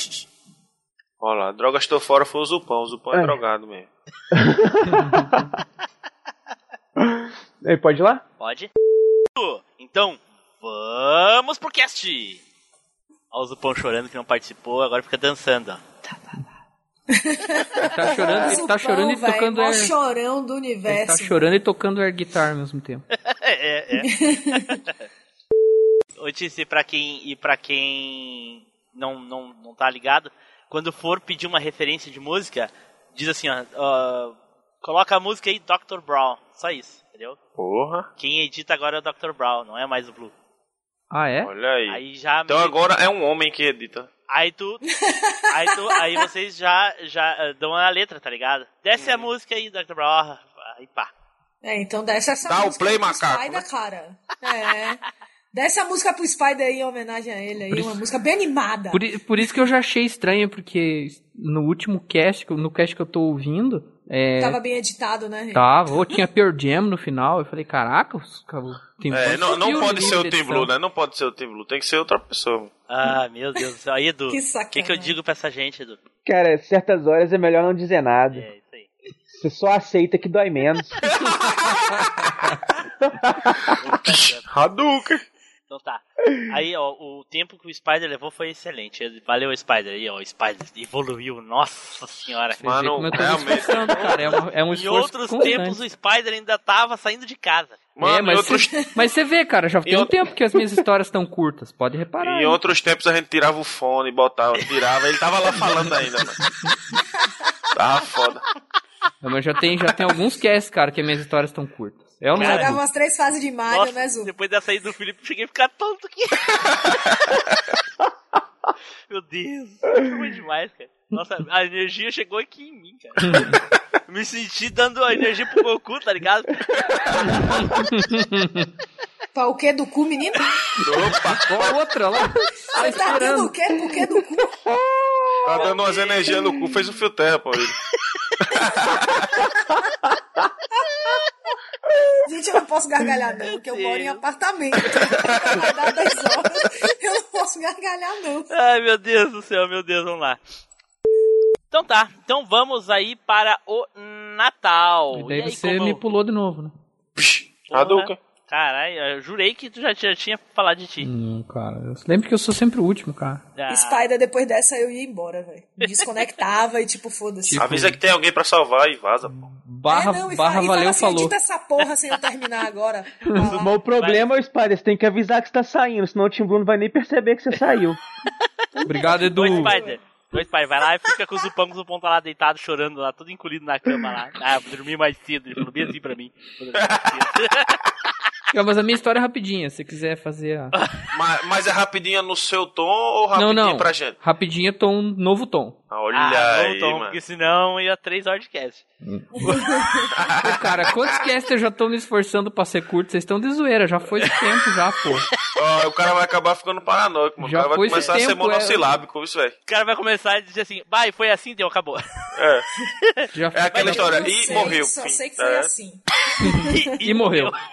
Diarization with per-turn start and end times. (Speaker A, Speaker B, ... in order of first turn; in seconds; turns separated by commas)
Speaker A: 1.2-3.9, Speaker B: 4.3-5.5, Speaker B: 7.0-8.2, Speaker C: 8.4-8.7, Speaker C: 9.3-12.4, Speaker C: 13.3-16.0, Speaker D: 17.1-21.5, Speaker E: 17.9-19.9, Speaker E: 20.9-23.1, Speaker C: 23.3-24.8, Speaker D: 24.0-24.7, Speaker C: 26.2-37.4, Speaker A: 37.6-38.1, Speaker C: 38.2-40.3, Speaker E: 41.1-41.5, Speaker A: 41.4-44.1, Speaker C: 41.9-42.8, Speaker C: 44.3-44.8, Speaker D: 45.0-46.2, Speaker C: 45.5-51.1, Speaker A: 49.0-49.3, Speaker D: 51.6-55.0, Speaker A: 52.4-53.6, Speaker D: 55.5-59.0, Speaker E: 57.7-58.0, Speaker E: 58.9-64.6, Speaker D: 64.4-66.2, Speaker E: 65.5-70.7, Speaker A: 69.1-72.7, Speaker C: 72.9-76.0, Speaker D: 74.3-75.2, Speaker B: 76.2-78.5, Speaker C: 78.3-78.9, Speaker B: 79.4-81.0, Speaker C: 83.8-84.5, Speaker A: 84.0-85.2, Speaker C: 85.7-92.8, Speaker E: 92.6-95.8, Speaker A: 92.6-94.4, Speaker C: 94.7-97.8, Speaker A: 98.0-98.7, Speaker E: 98.0-102.6, Speaker D: 98.6-99.0, Speaker A: 99.8-100.2, Speaker A: 102.2-106.4, Speaker A: 107.8-108.4, Speaker E: 109.2-112.8, Speaker C: 112.4-112.8, Speaker D: 112.4-114.3, Speaker C: 113.7-116.9, Speaker C: 119.1-123.5, Speaker E: 123.2-123.5, Speaker C: 124.1-127.5, Speaker E: 127.5-128.7, Speaker D: 129.3-130.5, Speaker A: 130.8-131.8, Speaker E: 131.1-133.6, Speaker D: 132.7-134.6, Speaker A: 135.4-137.8, Speaker C: 135.6-136.3, Speaker A: 138.5-139.1, Speaker D: 142.2-148.5, Speaker C: 143.4-144.2, Speaker A: 145.4-145.8, Speaker C: 148.5-150.4, Speaker C: 151.7-156.0, Speaker E: 155.1-156.8, Speaker A: 157.2-158.2, Speaker C: 157.7-161.1, Speaker E: 161.0-163.4, Speaker C: 163.6-164.1, Speaker D: 163.7-167.8, Speaker E: 167.5-168.0, Speaker A: 167.6-169.4, Speaker E: 169.4-171.4, Speaker D: 169.9-173.7, Speaker C: 173.4-174.2, Speaker B: 173.5-178.0, Speaker D: 178.8-180.0, Speaker E: 178.9-179.8, Speaker C: 179.1-187.8, Speaker E: 188.5-190.7, Speaker A: 191.1-194.2, Speaker E: 193.3-195.8, Speaker A: 195.9-197.2, Speaker C: 196.1-198.8, Speaker D: 199.3-200.1, Speaker A: 200.2-201.2, Speaker E: 200.4-205.3, Speaker A: 205.6-209.5, Speaker E: 207.4-208.9, Speaker C: 207.9-208.2, Speaker C: 209.7-212.0, Speaker A: 212.3-212.7, Speaker E: 213.3-214.5, Speaker A: 213.5-215.7, Speaker C: 213.7-214.4, Speaker D: 213.8-216.0, Speaker E: 216.4-217.6, Speaker C: 216.6-217.6